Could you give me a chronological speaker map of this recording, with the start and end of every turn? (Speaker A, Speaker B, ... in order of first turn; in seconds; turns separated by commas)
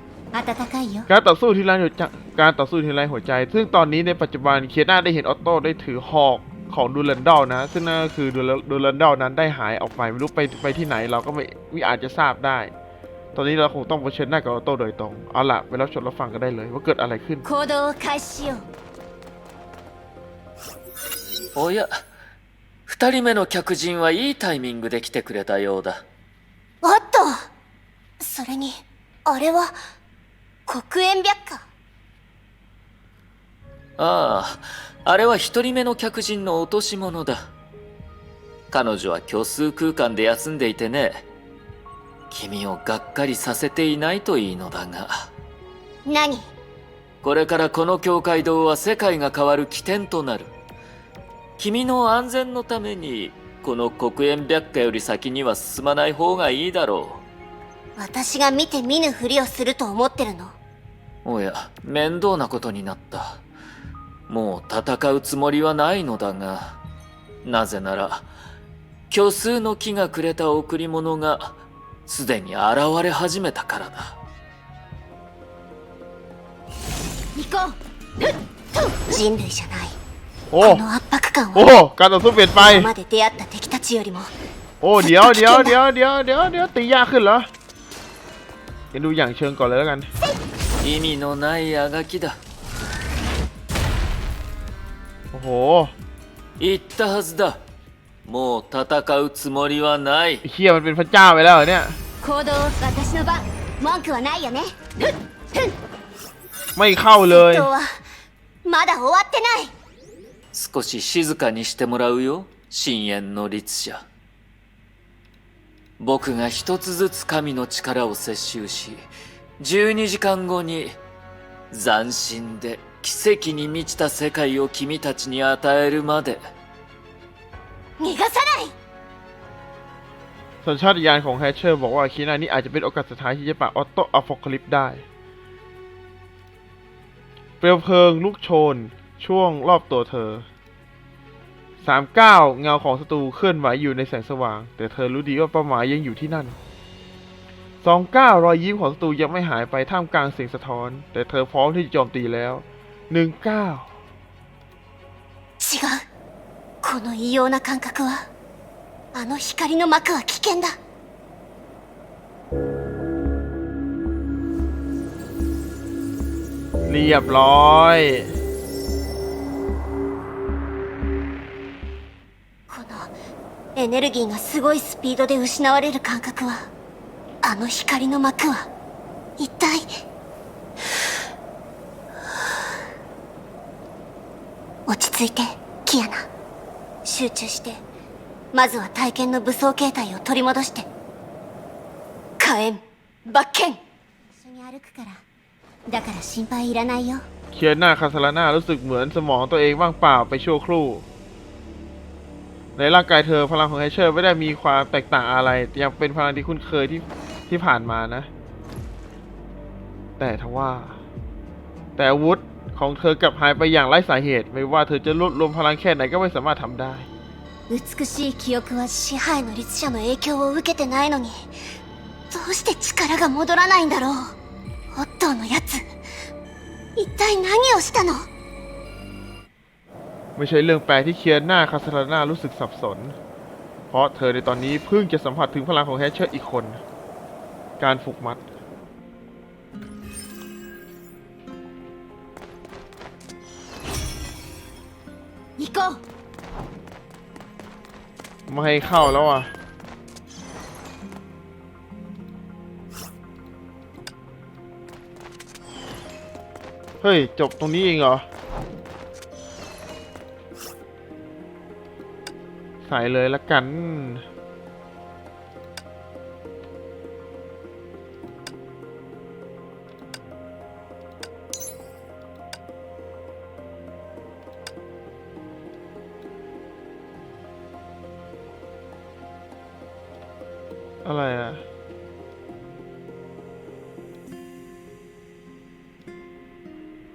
Speaker A: 0.3-1.1, Speaker B: 1.1-12.7, Speaker B: 13.3-17.4, Speaker A: 17.4-18.6, Speaker C: 21.5-21.9, Speaker C: 22.9-26.0, Speaker A: 26.8-27.4, Speaker A: 28.2-29.7, Speaker A: 30.7-31.6, Speaker C: 34.0-37.5, Speaker C: 38.7-41.2, Speaker C: 42.3-45.3, Speaker A: 46.0-46.5, Speaker C: 47.2-50.5, Speaker C: 51.6-57.2, Speaker A: 58.0-60.5, Speaker C: 61.2-63.4, Speaker C: 64.3-66.8, Speaker C: 67.4-68.3, Speaker C: 69.1-74.1, Speaker A: 79.1-80.0, Speaker B: 80.5-80.8, Speaker A: 80.6-81.9, Speaker B: 81.5-82.9, Speaker A: 82.5-84.3, Speaker B: 84.8-87.5, Speaker A: 85.0-85.7, Speaker B: 88.9-90.1, Speaker C: 90.8-92.4, Speaker B: 95.3-95.9, Speaker C: 96.6-97.6, Speaker C: 98.2-100.4, Speaker B: 100.4-102.0, Speaker A: 102.2-105.7, Speaker B: 106.8-107.7, Speaker A: 107.3-107.9, Speaker A: 108.6-109.7, Speaker C: 110.5-114.0, Speaker C: 116.0-119.1, Speaker C: 119.6-121.0, Speaker C: 121.7-126.4, Speaker A: 128.0-128.7, Speaker B: 130.6-135.0, Speaker B: 137.6-140.4, Speaker B: 141.8-146.6, Speaker B: 147.8-153.8, Speaker A: 155.6-156.0, Speaker A: 156.8-158.2, Speaker A: 159.1-160.8, Speaker B: 166.8-168.3, Speaker A: 172.7-173.1, Speaker A: 173.8-176.7, Speaker A: 177.4-178.7, Speaker A: 179.4-179.9, Speaker A: 184.9-186.3, Speaker A: 187.0-187.8, Speaker A: 188.5-190.8, Speaker A: 192.4-193.8, Speaker A: 194.4-195.2, Speaker A: 195.9-197.2, Speaker B: 197.5-201.1, Speaker B: 202.8-208.3, Speaker B: 210.2-211.0, Speaker B: 212.0-217.1, Speaker A: 217.7-221.4, Speaker A: 222.3-224.3, Speaker A: 224.9-225.8, Speaker A: 226.9-228.3, Speaker B: 230.3-233.2, Speaker B: 233.9-236.8, Speaker B: 237.8-238.4, Speaker A: 245.6-245.9, Speaker B: 248.5-249.5, Speaker B: 257.0-258.3, Speaker B: 262.8-264.2, Speaker B: 281.0-281.6